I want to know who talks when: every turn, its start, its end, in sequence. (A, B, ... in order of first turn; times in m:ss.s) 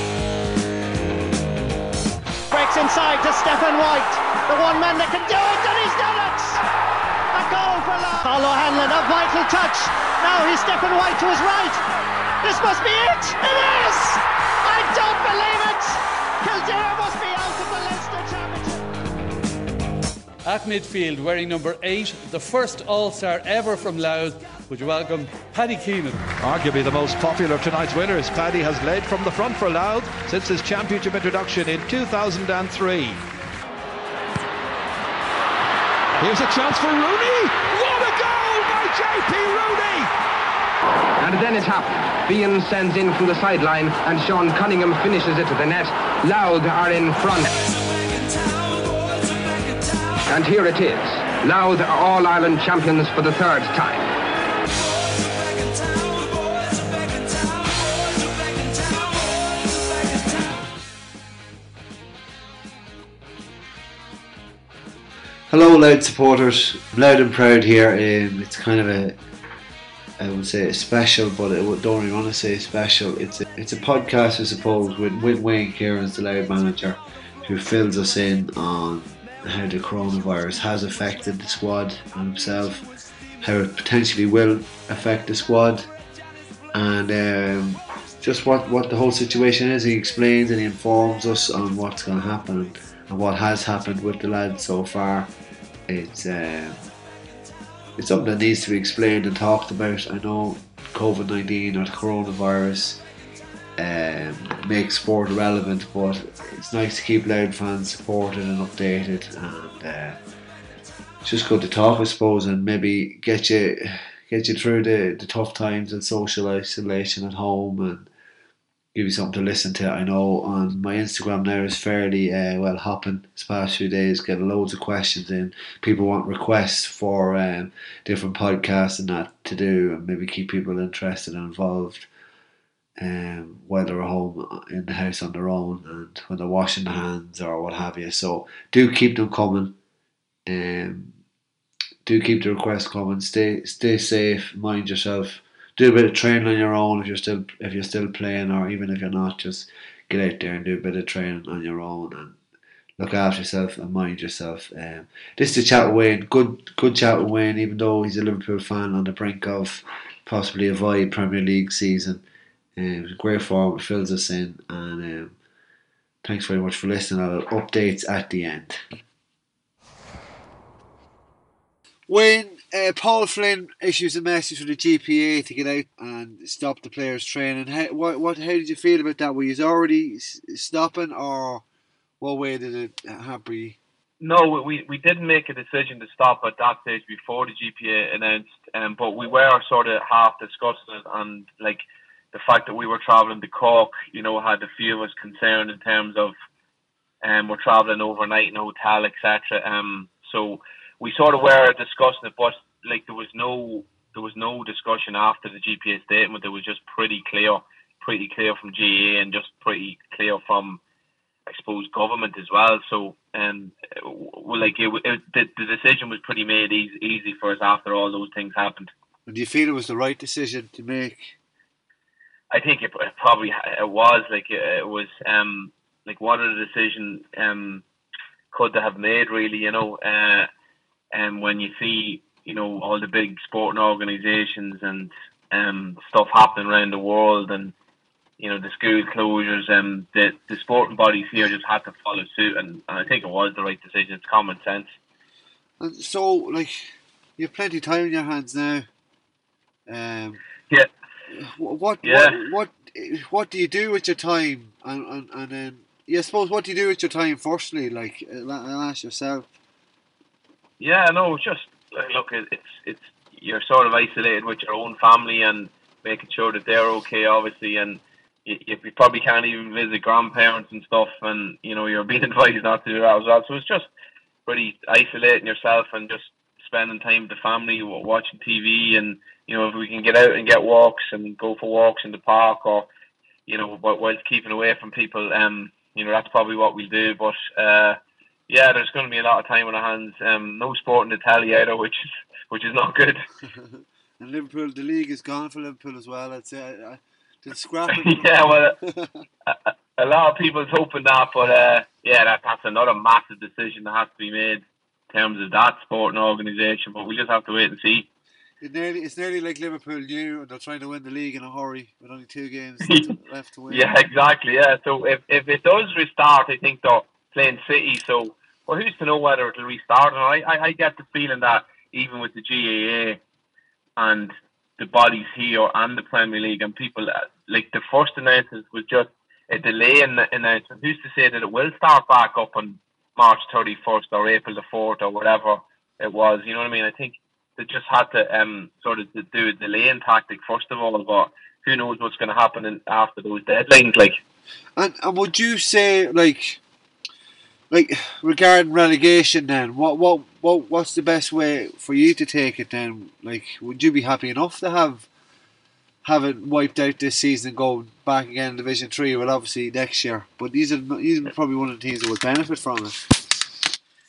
0:02.5-0:06.6 A
0:07.3-0:11.8 A
0:12.4-0:18.8 A
0:20.4-0:26.3 B
0:26.4-0:33.2 C
0:36.2-0:40.1 C
0:41.2-0:47.5 D
0:50.3-0:54.0 D
1:05.5-1:09.2 E
1:10.2-1:25.9 E
1:26.7-1:35.3 E
1:35.9-1:36.8 E
1:38.0-1:43.0 E
1:43.8-1:50.2 E
1:51.2-1:58.1 E
1:58.9-2:12.1 E
2:13.0-2:19.7 E
2:20.4-2:21.2 E
2:22.0-2:32.4 E
2:33.0-2:42.2 E
2:42.8-2:45.3 E
2:46.2-2:48.8 E
2:52.1-3:01.6 E
3:02.2-3:03.8 E
3:04.2-3:11.8 F
3:12.3-3:16.3 F
3:17.2-3:30.8 F
3:31.4-3:38.9 F
3:39.3-3:41.3 E
3:42.5-3:47.8 F
3:48.5-3:50.4 F
3:51.1-3:57.7 F
3:58.4-4:04.9 F
4:05.8-4:06.8 E
4:07.4-4:08.8 E
4:09.9-4:10.4 E
4:11.3-4:19.5 E
4:12.0-4:12.4 F
4:20.8-4:33.9 F
4:34.4-4:42.9 F
4:43.4-4:48.0 F
4:48.5-4:53.2 F
4:53.4-4:59.2 E
4:57.9-4:58.8 F
4:59.5-5:08.1 F
5:08.6-5:13.9 E
5:13.7-5:23.2 F
5:24.0-5:44.2 F
5:44.8-5:46.6 E
5:47.7-5:55.1 E
5:56.0-6:03.1 E